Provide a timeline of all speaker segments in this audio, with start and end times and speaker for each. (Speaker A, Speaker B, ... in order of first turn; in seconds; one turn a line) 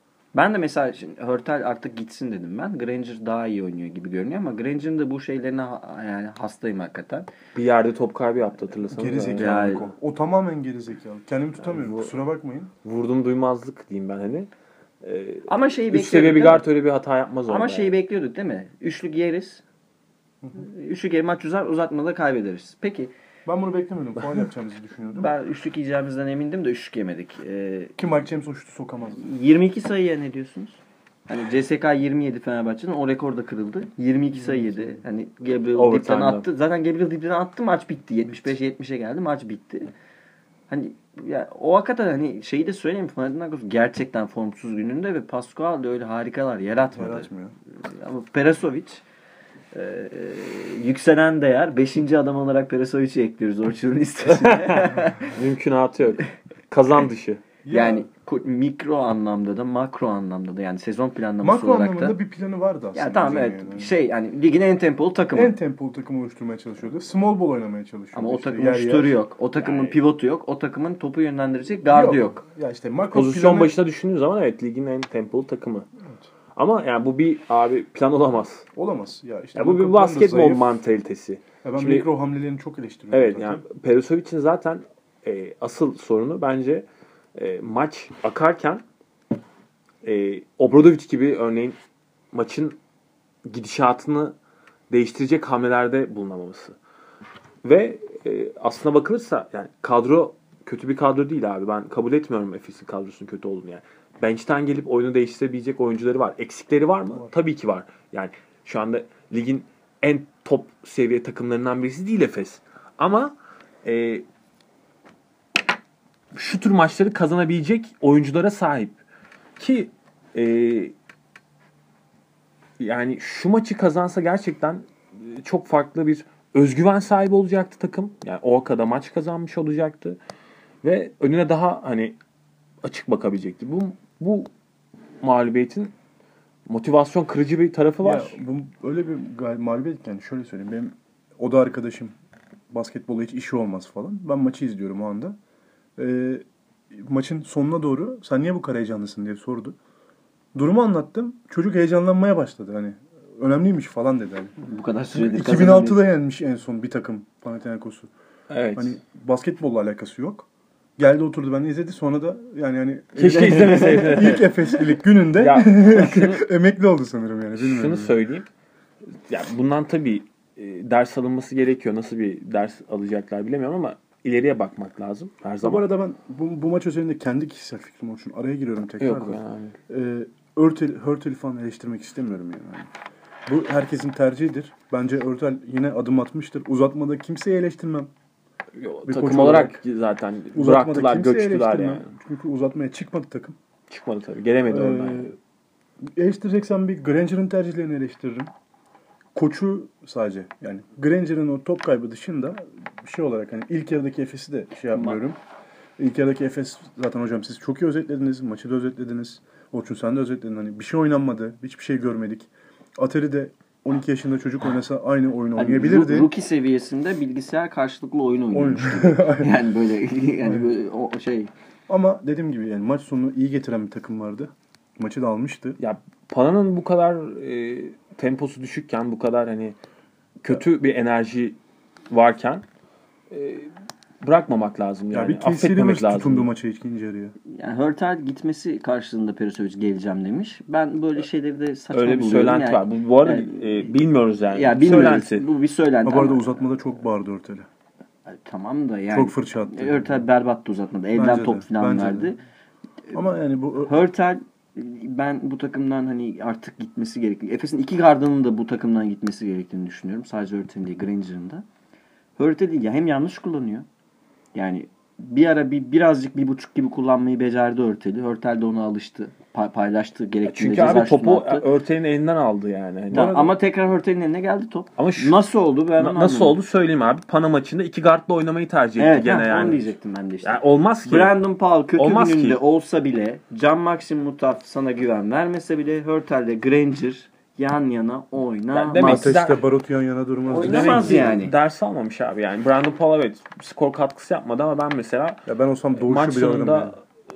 Speaker A: 0.3-7.3
Speaker B: 7.5-9.8
Speaker C: 8.9-12.7
Speaker A: 9.3-9.9
Speaker B: 11.6-12.1
Speaker B: 12.8-14.5
Speaker B: 15.0-17.9
Speaker A: 15.5-16.6
Speaker A: 17.5-19.6
Speaker A: 20.6-23.1
Speaker C: 23.4-25.3
Speaker A: 25.2-27.9
Speaker C: 28.0-29.2
Speaker A: 29.2-39.9
Speaker C: 34.4-35.0
Speaker B: 35.7-36.5
Speaker A: 40.7-47.3
Speaker C: 46.9-47.5
Speaker A: 47.8-49.0
Speaker A: 49.7-55.3
Speaker B: 54.3-57.4
Speaker C: 57.6-58.1
Speaker A: 57.7-62.1
Speaker C: 61.4-63.9
Speaker A: 62.9-65.5
Speaker C: 65.3-69.2
Speaker A: 68.1-72.4
Speaker B: 69.6-70.0
Speaker C: 71.9-73.7
Speaker B: 73.1-75.9
Speaker B: 76.5-78.7
Speaker C: 78.7-80.7
Speaker B: 79.5-82.1
Speaker C: 81.6-83.6
Speaker B: 83.1-88.8
Speaker B: 90.0-91.8
Speaker B: 92.3-92.8
Speaker B: 93.5-94.3
Speaker B: 94.9-96.8
Speaker B: 97.6-114.2
Speaker B: 116.3-119.0
Speaker B: 119.6-120.9
Speaker B: 122.8-130.2
Speaker B: 130.8-132.2
Speaker B: 132.8-134.5
Speaker B: 135.2-135.9
Speaker B: 136.7-138.4
Speaker C: 138.0-142.1
Speaker C: 142.7-145.4
Speaker C: 146.0-149.8
Speaker C: 150.5-154.6
Speaker A: 154.6-156.0
Speaker C: 155.1-158.1
Speaker B: 158.5-158.9
Speaker C: 158.8-160.5
Speaker C: 161.0-168.2
Speaker B: 163.2-164.4
Speaker A: 163.2-164.5
Speaker B: 165.4-166.4
Speaker B: 167.6-168.5
Speaker B: 169.3-175.8
Speaker C: 175.6-182.9
Speaker B: 179.0-179.8
Speaker C: 183.5-188.1
Speaker B: 188.8-192.1
Speaker C: 189.1-189.8
Speaker C: 190.5-193.6
Speaker B: 193.9-195.3
Speaker C: 194.7-195.3
Speaker C: 196.1-198.5
Speaker C: 199.3-205.4
Speaker A: 204.9-205.2
Speaker C: 206.0-216.3
Speaker A: 215.6-221.5
Speaker C: 218.5-219.5
Speaker C: 220.4-220.7
Speaker C: 221.9-225.8
Speaker B: 225.8-229.8
Speaker B: 230.4-231.6
Speaker B: 232.1-232.6
Speaker B: 233.3-233.7
Speaker B: 234.2-236.5
Speaker C: 235.1-237.3
Speaker A: 237.5-243.9
Speaker B: 241.9-245.4
Speaker A: 244.5-246.6
Speaker C: 244.8-245.2
Speaker C: 246.0-247.7
Speaker A: 248.3-252.4
Speaker C: 249.1-250.1
Speaker C: 251.1-252.3
Speaker C: 253.1-254.0
Speaker A: 253.8-261.6
Speaker A: 262.4-263.9
Speaker A: 264.5-271.6
Speaker B: 270.4-273.4
Speaker C: 273.1-273.5
Speaker A: 273.1-276.6
Speaker B: 275.0-275.4
Speaker B: 276.0-279.9
Speaker A: 279.0-289.3
Speaker B: 280.4-281.4
Speaker B: 282.0-282.6
Speaker B: 288.7-289.6
Speaker C: 289.0-291.3
Speaker A: 290.5-291.5
Speaker B: 290.6-295.4
Speaker C: 295.4-296.9
Speaker B: 295.9-297.0